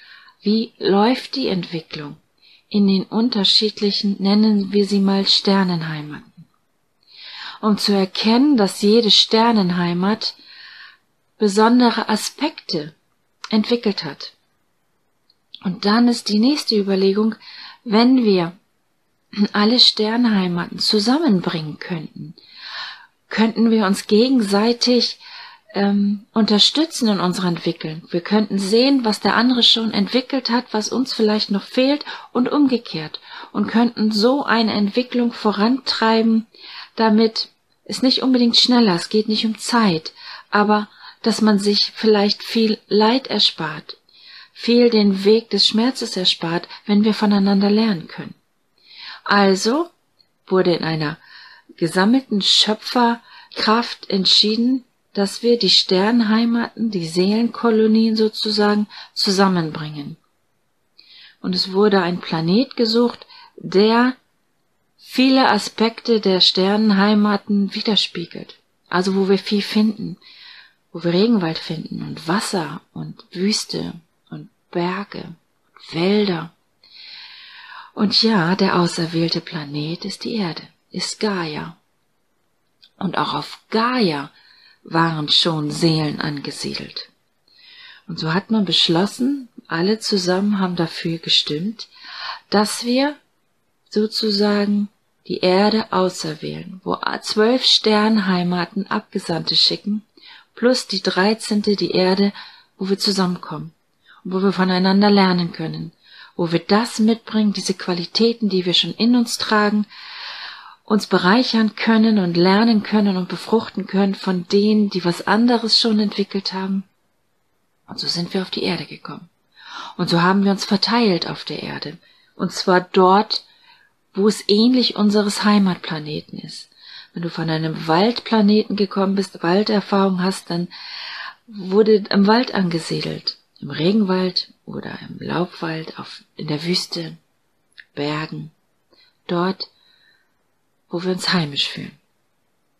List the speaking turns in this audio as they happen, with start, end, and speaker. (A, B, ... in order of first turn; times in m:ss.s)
0:00.4-0:06.5 A
0:07.6-0:10.4 A
0:11.4-0:12.9 A
0:13.5-0:14.3 A
0:15.6-0:18.6 A
0:19.4-0:22.4 A
0:23.3-0:25.2 A
0:25.8-0:44.0 A
0:44.5-0:48.4 A
0:49.3-0:49.9 A
0:50.5-0:51.2 A
0:51.8-1:00.2 A
1:01.4-1:04.2 A
1:05.0-1:10.2 A
1:10.9-1:16.5 A
1:18.0-1:21.8 A
1:23.0-1:24.3 A
1:24.8-1:27.1 A
1:28.1-1:31.9 A
1:32.5-1:33.2 A
1:33.9-1:49.9 A
1:50.9-1:56.9 A
1:57.9-1:59.3 A
2:00.0-2:03.4 A
2:04.1-2:10.7 A
2:11.5-2:17.2 A
2:17.9-2:18.5 A
2:19.3-2:19.7 A
2:20.9-2:22.0 A